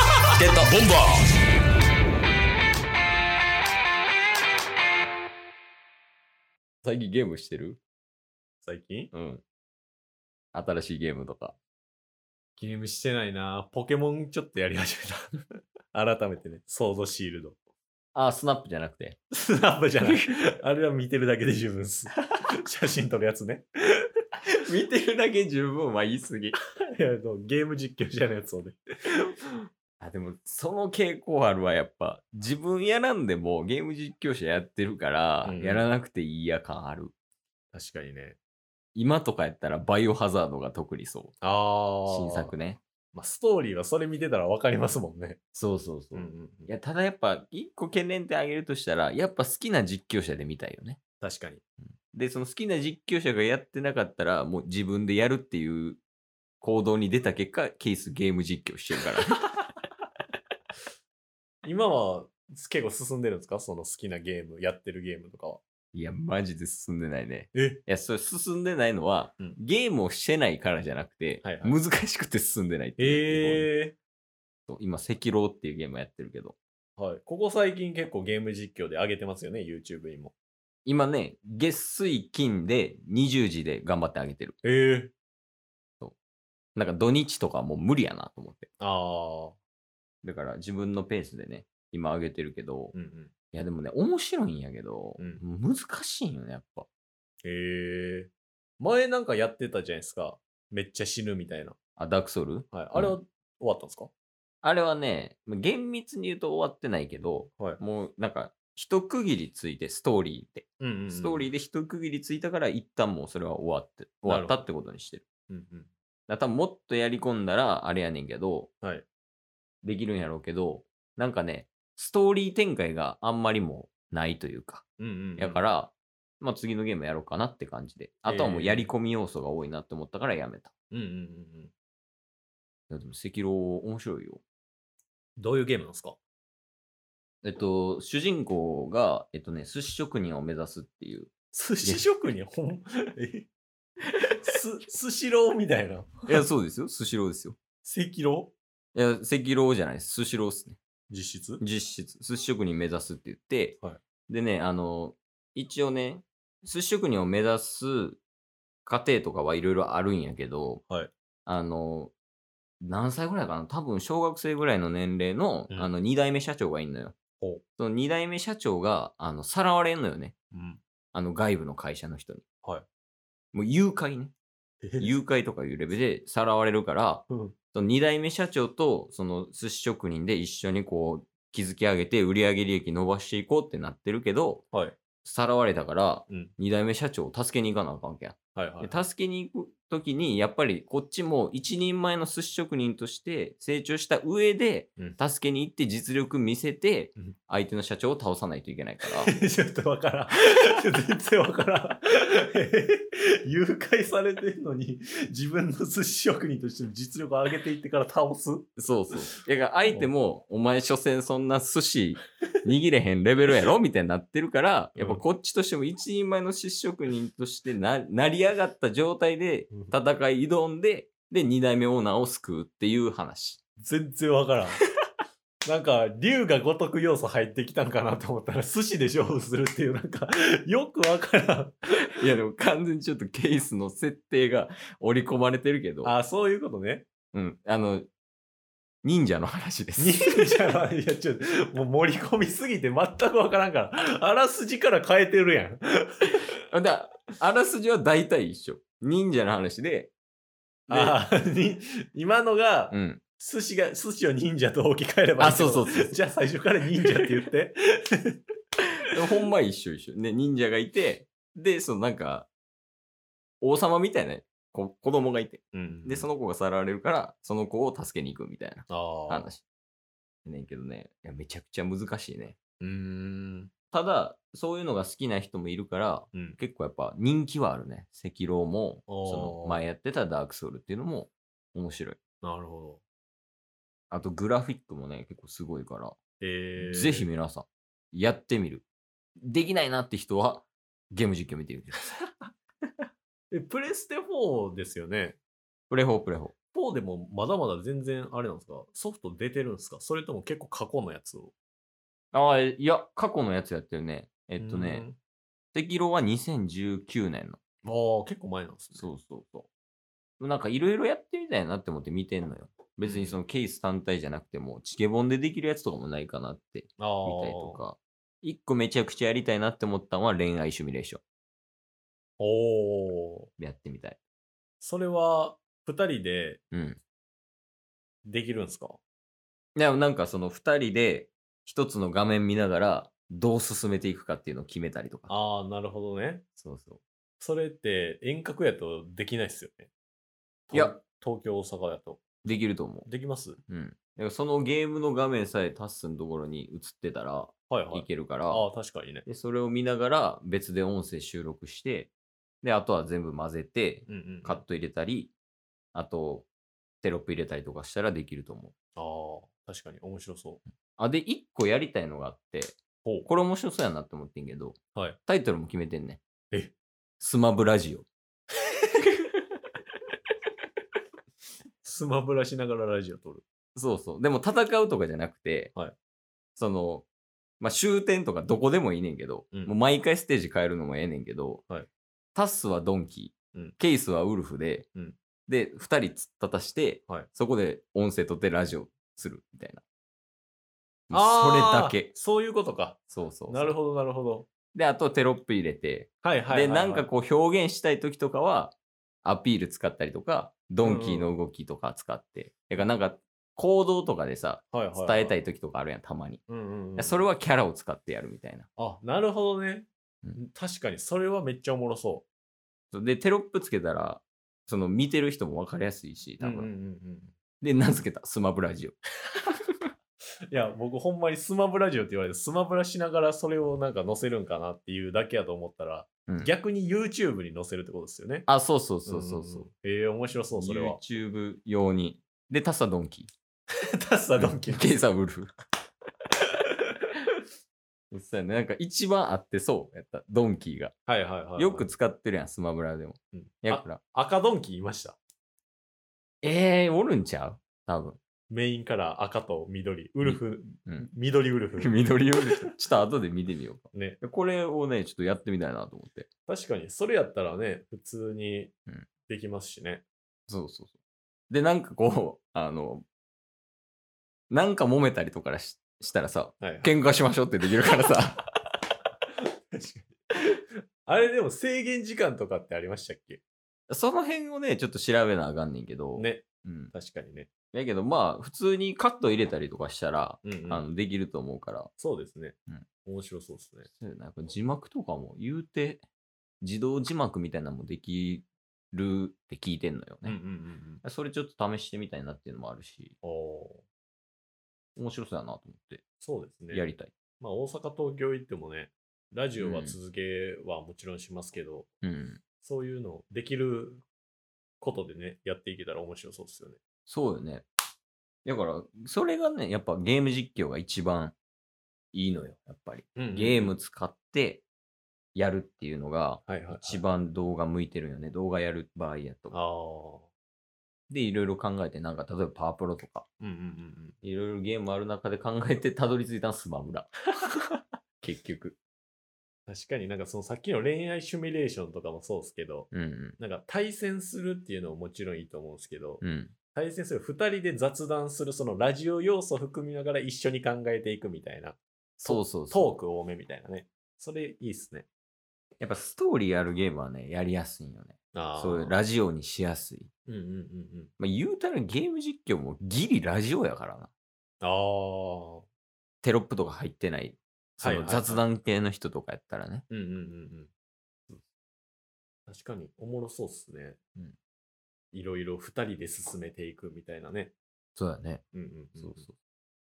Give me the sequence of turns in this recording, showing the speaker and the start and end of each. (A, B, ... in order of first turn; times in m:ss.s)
0:00.4-0:00.7 A
0:00.6-0:01.3 B
0:06.8-0:07.8 A
0:08.6-0:09.1 B
0:09.1-0:09.4 A
0:10.5-0:11.6 A
0:12.6-0:15.4 B
0:15.9-0:17.6 B
0:18.1-0:19.2 A
0:19.3-0:24.0 B
0:20.0-0:20.4 A
0:24.6-0:26.6 A
0:27.0-0:29.3 B
0:30.0-0:37.1 A
0:35.4-0:35.8 B
0:37.7-0:38.4 B
0:38.9-0:41.4 A
0:41.4-0:42.5 B
0:42.1-0:42.8 A
0:43.1-0:45.4 B
0:45.5-0:51.0 A
0:46.1-0:46.7 B
0:51.2-0:51.6 B
0:52.0-0:56.0 A
0:56.6-0:59.5 A
1:01.6-1:05.6 B
1:05.9-1:13.7 A
1:07.5-1:07.8 B
1:11.4-1:11.8 B
1:13.0-1:14.0 B
1:14.7-1:16.6 A
1:17.0-1:20.3 B
1:20.8-1:24.6 A
1:24.6-1:25.1 B
1:26.8-1:28.7 A
1:28.8-1:29.6 B
1:30.2-1:32.9 A
1:32.9-1:33.3 B
1:33.5-1:36.9 A
1:35.2-1:35.4 B
1:37.4-1:41.8 B
1:42.0-1:43.2 A
1:42.7-1:44.1 B
1:44.6-1:55.2 A
1:50.8-1:51.5 B
1:54.2-1:54.6 B
1:55.5-1:55.9 B
1:56.3-1:58.7 A
1:59.8-2:04.8 A
2:05.0-2:05.6 B
2:05.4-2:10.7 A
2:08.3-2:08.9 B
2:10.9-2:11.7 B
2:12.9-2:14.4 A
2:15.4-2:16.2 B
2:17.4-2:21.3 A
2:21.5-2:23.5 B
2:24.4-2:26.4 B
2:26.3-2:27.6 A
2:27.8-2:28.5 B
2:28.9-2:30.8 A
2:31.1-2:31.6 B
2:31.6-2:38.2 A
2:38.8-2:40.8 A
2:41.4-2:42.1 A
2:42.8-2:47.1 A
2:47.8-2:50.3 A
2:50.5-2:50.8 B
2:51.1-2:52.4 A
2:53.5-2:54.3 A
2:54.8-2:55.1 B
2:55.0-3:04.6 A
2:57.3-2:57.5 B
3:04.7-3:05.0 B
3:05.2-3:19.3 A
3:06.3-3:06.5 B
3:08.5-3:09.0 B
3:19.2-3:28.7 B
3:28.8-3:43.6 A
3:35.0-3:35.2 B
3:43.8-3:44.8 B
3:45.6-3:51.8 B
3:52.0-3:56.1 A
3:56.0-3:57.0 B
3:57.3-3:58.1 A
3:59.0-4:00.6 A
4:00.0-4:06.4 B
4:06.7-4:10.1 A
4:10.9-4:11.2 A
4:10.9-4:18.4 B
4:12.9-4:13.2 A
4:15.4-4:16.2 A
4:19.1-4:22.5 A
4:23.6-4:29.6 A
4:25.7-4:26.3 B
4:28.9-4:29.5 B
4:30.4-4:32.6 A
4:32.8-4:33.7 B
4:33.9-4:42.2 A
4:36.3-4:36.6 B
4:39.1-4:39.8 B
4:42.4-4:43.0 B
4:44.1-4:46.2 A
4:46.4-4:47.3 B
4:46.8-4:48.8 A
4:49.4-4:52.0 A
4:53.5-4:55.4 B
4:55.9-4:56.5 A
4:56.7-5:01.5 B
5:02.3-5:05.0 A
5:04.6-5:05.2 B
5:05.7-5:07.6 A
5:07.8-5:09.1 B
5:08.9-5:09.7 A
5:10.4-5:21.2 A
5:13.0-5:13.4 B
5:17.0-5:17.8 B
5:22.4-5:23.5 B
5:23.6-5:24.2 A
5:24.8-5:26.6 B
5:26.7-5:27.0 A
5:28.2-5:29.0 B
5:29.8-5:35.3 A
5:35.3-5:36.4 B
5:36.6-5:37.0 A
5:37.4-5:39.9 B
5:40.7-5:42.2 B
5:42.4-5:43.1 A
5:43.0-5:43.6 B
5:43.7-5:48.7 A
5:47.7-5:49.2 B
5:49.2-5:55.3 A
5:54.1-5:54.6 B
5:55.9-5:56.5 A
5:57.0-5:58.7 A
5:59.0-6:00.6 B
6:01.0-6:06.2 A
6:07.2-6:08.1 A
6:11.8-6:13.4 B
6:13.8-6:15.7 A
6:16.6-6:17.1 A
6:17.6-6:21.6 A
6:22.3-6:24.9 A
6:25.5-6:29.8 A
6:31.1-6:32.1 A
6:31.1-6:34.5 B
6:33.1-6:33.7 A
6:34.7-6:46.4 A
6:36.2-6:37.1 B
6:40.8-6:41.3 B
6:44.7-6:45.4 B
6:46.5-6:47.2 B
6:47.0-6:48.7 A
6:48.8-6:52.2 B
6:52.9-6:56.7 A
6:56.4-6:57.3 B
6:57.6-6:59.0 A
7:00.5-7:08.5 B
7:06.3-7:06.5 A
7:08.5-7:09.7 A
7:09.0-7:11.0 B
7:10.5-7:13.3 A
7:14.0-7:14.9 B
7:14.4-7:15.5 A
7:18.1-7:20.9 A
7:21.1-7:21.9 B
7:21.6-7:24.0 A
7:23.3-7:25.2 B
7:26.4-7:28.2 A
7:28.5-7:32.8 B
7:30.2-7:31.1 A
7:31.8-7:36.3 A
7:33.9-7:34.2 B
7:36.5-7:38.7 B
7:39.3-7:40.0 B
7:40.5-7:41.0 A
7:41.5-7:43.0 A
7:44.5-7:48.5 A
7:46.6-7:46.9 B
7:49.7-7:53.4 B
7:53.9-7:56.9 A
7:56.2-7:57.5 B
7:57.7-8:01.9 A
8:00.4-8:00.8 B
8:02.0-8:03.9 B
8:03.9-8:06.0 A
8:06.6-8:10.4 A
8:10.2-8:11.0 B
8:11.0-8:13.2 A
8:13.2-8:13.8 B
8:15.0-8:16.0 A
8:16.2-8:16.9 B
8:16.7-8:17.1 A
8:17.4-8:21.9 B
8:19.6-8:20.0 A
8:22.0-8:22.4 A
8:22.6-8:24.0 B
8:24.8-8:26.8 B
8:27.1-8:27.6 A
8:28.4-8:31.4 A
8:32.1-8:34.6 A
8:33.2-8:33.8 B
8:35.3-8:39.6 A
8:36.5-8:37.0 B
8:39.5-8:40.3 B
8:41.1-8:43.3 A
8:43.4-8:44.2 B
8:44.2-8:47.1 A
8:48.2-8:48.8 A
8:49.7-8:56.2 B
8:52.9-8:53.4 A
8:56.2-8:56.5 A
8:56.7-9:05.0 B
9:02.2-9:02.9 A
9:05.8-9:10.1 A
9:08.3-9:09.0 B
9:10.3-9:11.1 B
9:11.2-9:14.1 A
9:14.6-9:15.6 B
9:16.2-9:19.8 A
9:17.8-9:18.5 B
9:19.9-9:20.7 B
9:22.5-9:24.0 B
9:25.1-9:27.5 B
9:28.0-9:28.4 A
9:28.5-9:29.2 B
9:29.0-9:29.3 A